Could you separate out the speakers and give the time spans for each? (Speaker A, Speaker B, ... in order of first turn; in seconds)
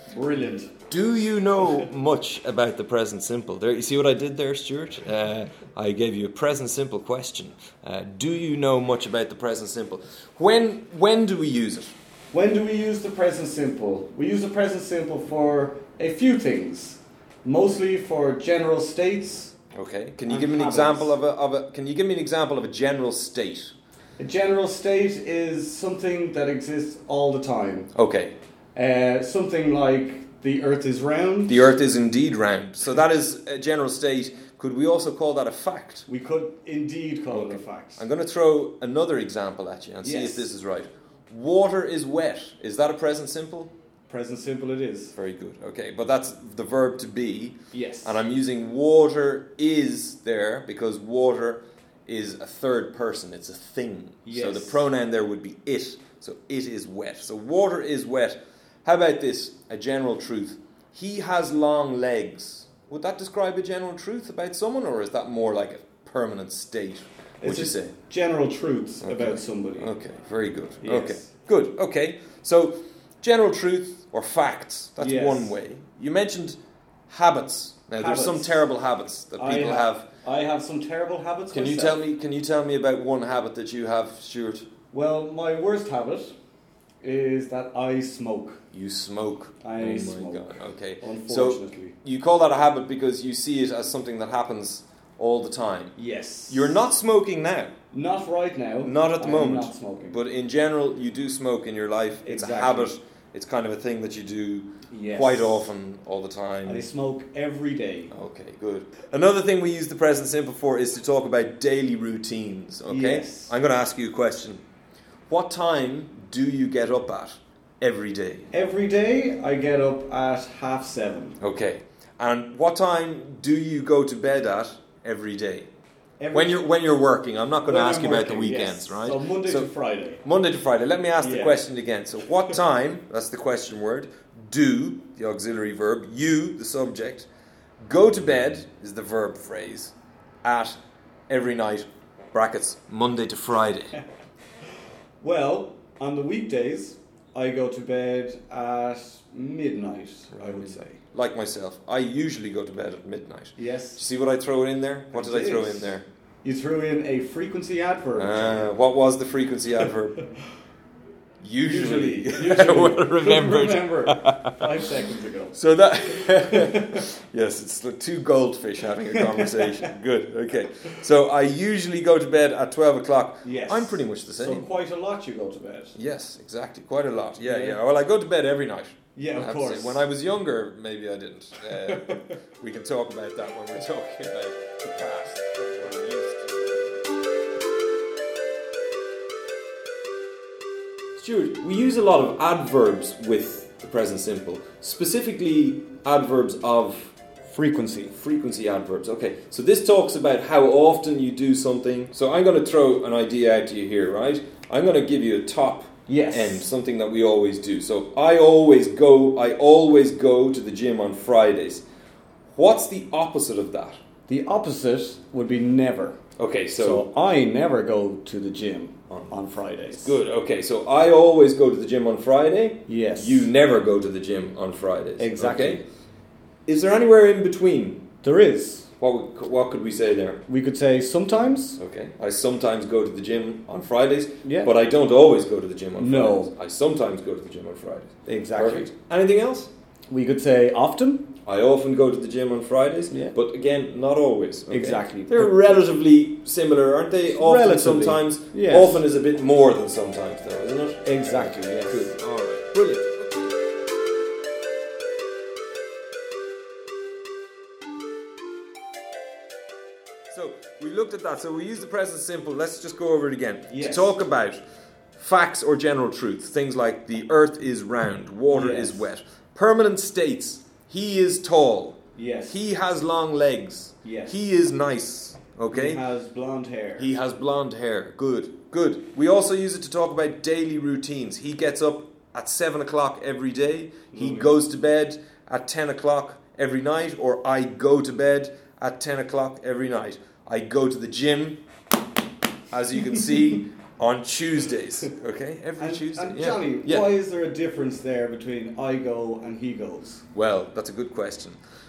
Speaker A: 0.1-0.8, 12.3-19.5, 20.3-21.1, 24.2-27.9, 28.7-31.7, 36.1-38.0, 40.0-40.5, 44.1-45.1, 47.7-48.2, 54.2-54.8, 67.4-69.9, 70.8-71.3, 75.0-75.5, 78.0-78.6, 79.4-82.0, 84.9-86.3, 87.0-88.6, 89.6-91.9, 96.0-96.8, 97.9-100.2, 102.2-102.9, 104.9-105.7, 106.7-108.1, 112.9-113.5, 118.5-121.4, 126.2-126.6, 127.7-130.2, 131.2-131.6, 145.2-151.0, 153.6-154.0, 155.1-155.9, 156.4-158.7, 161.6-165.6, 166.2-167.0, 169.0-169.9, 173.4-175.9, 177.4-177.8, 179.2-180.1, 181.7-182.3, 197.4-198.1, 206.1-206.7, 214.3-216.2, 216.8-220.2, 222.9-223.5, 225.2-225.8, 228.2-228.9, 230.5-231.8, 234.4-234.7, 236.0-236.5, 238.3-238.9, 240.1-241.3, 244.7-245.9, 247.3-249.0, 251.0-252.1, 263.7-264.1, 268.5-269.1, 272.1-272.6, 274.0-274.4, 275.7-277.1, 284.1-284.5, 295.8-300.2
Speaker B: 0.9-11.9, 19.7-23.7, 27.9-28.4, 31.5-36.0, 37.3-43.7, 45.1-67.9, 69.0-76.6, 77.1-80.0, 81.5-84.7, 88.7-96.0, 96.5-97.7, 98.8-106.9, 108.1-114.6, 115.3-118.5, 121.4-125.7, 126.3-129.7, 130.2-137.3, 137.8-140.8, 141.3-143.9, 150.3-156.1, 158.2-160.2, 161.4-164.8, 165.5-174.7, 175.9-187.0, 191.2-197.2, 198.1-211.8, 212.5-214.0, 216.4-217.1, 219.9-225.8, 226.7-228.0, 229.0-230.4, 231.8-239.7, 241.4-253.5, 260.3-264.6, 265.1-276.0, 277.0-291.6, 292.7-297.1, 300.3-301.6